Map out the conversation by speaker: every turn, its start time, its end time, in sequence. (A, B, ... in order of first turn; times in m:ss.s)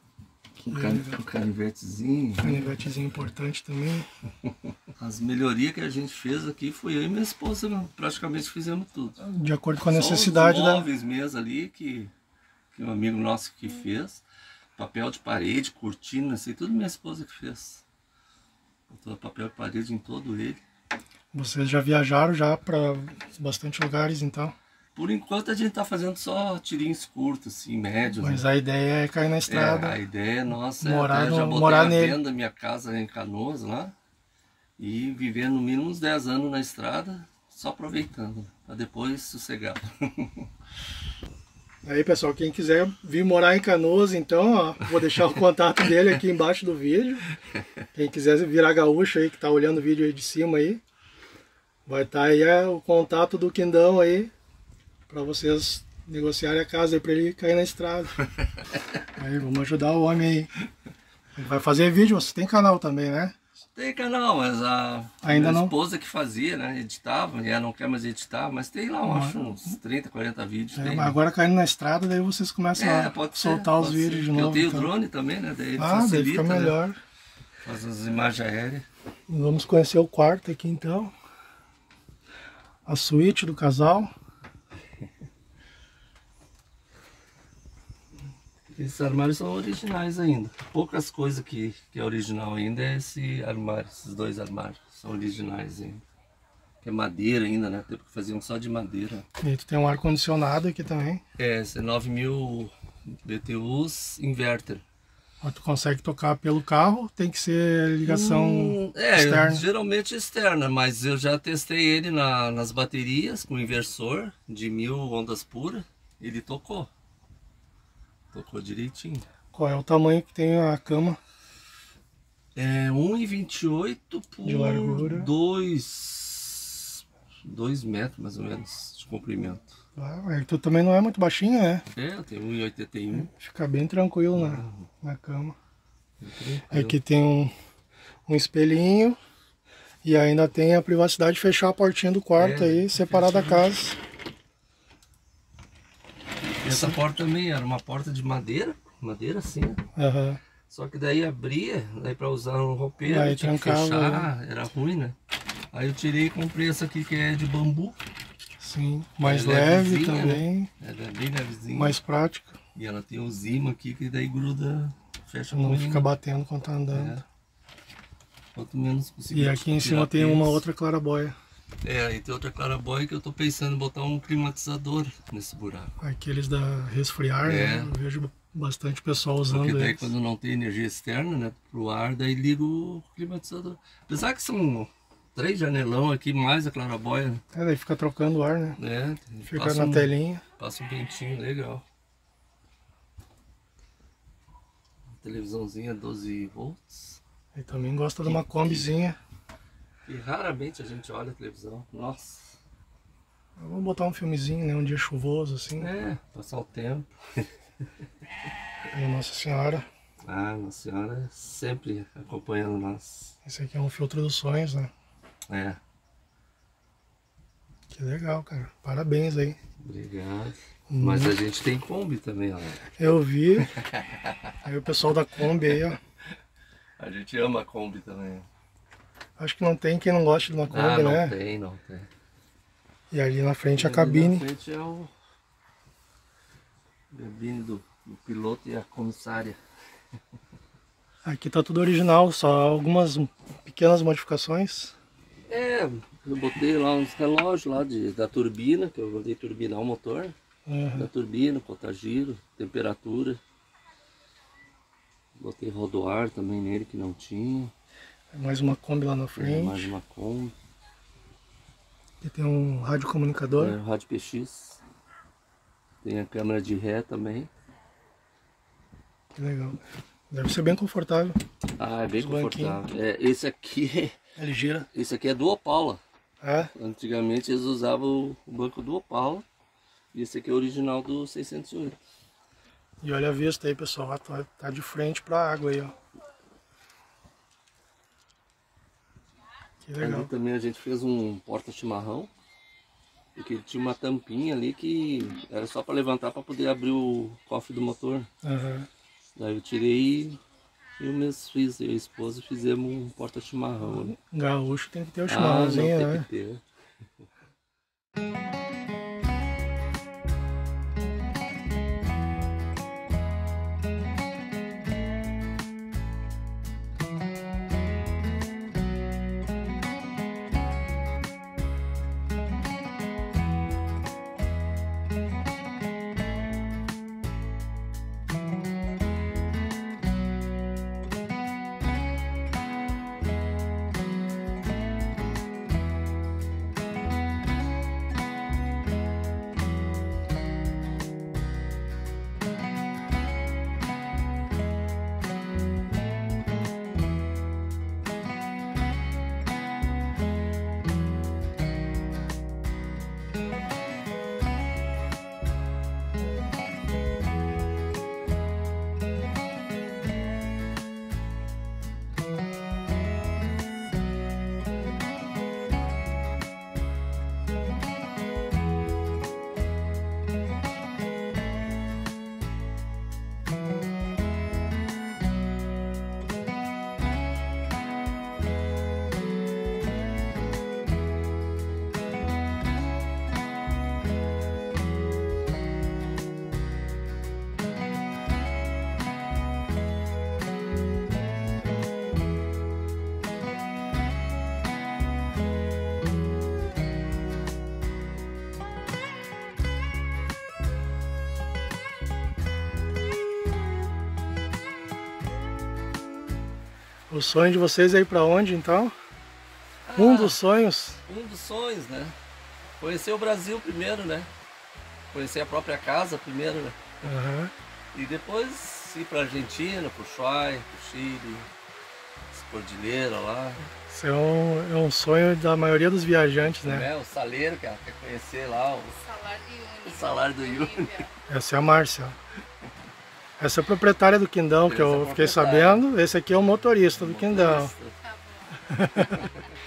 0:00.6-0:01.2 A
0:00.7-0:02.8 B
0:02.4-0:04.1 A
0:05.0-0:09.2 B
0:09.2-0:10.9 A
0:09.9-0:12.1 B
0:12.7-0:14.2 B
0:14.8-0:17.8 B
0:18.9-0:20.6 B
0:21.3-0:24.6 A
0:25.0-0:28.4 B
0:28.2-0:30.0 A
0:29.5-0:33.9 B
0:30.8-0:32.2 A
0:34.8-0:40.5 B
0:41.8-0:47.3 A
0:47.9-0:50.8 A
0:51.9-0:54.3 A
0:55.1-0:58.2 A
0:59.2-1:00.5 A
1:01.4-1:03.4 A
1:03.8-1:11.2 B
1:05.2-1:05.8 A
1:09.0-1:09.6 A
1:10.8-1:14.9 A
1:12.8-1:16.8 B
1:15.8-1:17.0 A
1:17.6-1:18.9 B
1:19.3-1:21.1 A
1:22.9-1:24.1 A
1:28.7-1:36.0 B
1:36.8-1:39.2 B
1:39.4-1:41.2 A
1:41.4-1:44.8 B
1:45.4-1:49.7 A
1:48.0-1:56.9 B
1:58.3-1:59.3 B
1:59.5-2:01.2 A
2:02.6-2:09.7 B
2:04.4-2:05.3 A
2:10.0-2:11.8 A
2:11.9-2:13.3 B
2:13.1-2:15.6 A
2:14.4-2:14.9 B
2:16.2-2:17.0 B
2:16.7-2:17.5 A
2:18.3-2:19.2 A
2:20.0-2:24.0 A
2:22.4-2:23.7 B
2:26.6-2:29.8 B
2:26.7-2:27.0 A
2:30.0-2:30.4 A
2:30.7-2:35.2 B
2:33.0-2:34.3 A
2:35.7-2:38.0 B
2:38.6-2:40.7 A
2:39.2-2:42.0 B
2:41.7-2:42.6 A
2:42.8-2:46.1 B
2:45.5-2:47.2 A
2:46.9-2:47.2 B
2:48.6-2:50.6 B
2:49.3-2:51.4 A
2:51.8-2:55.9 B
2:56.0-3:00.1 A
2:57.4-2:58.0 B
2:59.5-3:07.4 B
3:07.5-3:08.8 A
3:08.8-3:11.8 B
3:09.5-3:10.4 A
3:15.2-3:17.2 B
3:17.6-3:19.2 A
3:18.2-3:19.0 B
3:20.1-3:22.6 B
3:23.6-3:25.9 A
3:25.8-3:27.5 B
3:28.9-3:29.9 A
3:30.3-3:33.4 B
3:33.4-3:34.9 A
3:35.5-3:35.8 B
3:37.9-3:39.6 A
3:39.8-3:42.9 B
3:40.9-3:41.4 A
3:43.0-3:43.7 A
3:43.7-3:44.4 B
3:44.6-3:46.0 A
3:47.0-3:48.5 B
3:49.4-3:51.4 A
3:50.7-3:52.1 B
3:53.1-3:54.5 A
3:53.7-3:55.1 B
3:57.1-3:59.6 B
4:01.2-4:05.0 A
4:05.5-4:10.4 B
4:10.7-4:11.1 A
4:11.0-4:13.4 B
4:15.4-4:17.7 B
4:18.3-4:20.0 A
4:19.4-4:20.6 B
4:22.2-4:23.8 A
4:23.6-4:24.8 B
4:26.0-4:27.5 B
4:29.4-4:31.4 A
4:31.8-4:34.2 B
4:32.2-4:32.8 A
4:34.4-4:34.9 A
4:34.9-4:36.0 B
4:36.4-4:36.7 A
4:36.6-4:39.4 B
4:40.1-4:42.0 B
4:43.0-4:45.9 A
4:49.8-4:50.3 A
4:50.0-4:52.3 B
4:53.4-4:58.3 B
4:58.4-4:58.9 A
4:59.4-5:00.4 B
5:01.0-5:04.1 B
5:03.8-5:06.3 A
5:05.3-5:06.6 B
6:47.1-6:49.0 A
6:49.9-6:50.4 B
6:50.0-6:51.0 A
6:51.1-6:52.2 B
6:52.8-6:54.3 B
6:55.1-6:57.1 B
6:57.0-6:57.5 A
6:57.9-7:01.5 B
7:02.3-7:03.6 B
7:03.9-7:06.9 A
7:06.4-7:09.0 B
7:09.0-7:11.1 C
7:09.8-7:11.1 B
7:11.3-7:12.2 A
7:13.4-7:17.7 A
7:14.6-7:15.8 B
7:16.9-7:18.0 B
7:18.0-7:19.4 C
7:18.7-7:19.2 A
7:19.1-7:19.4 B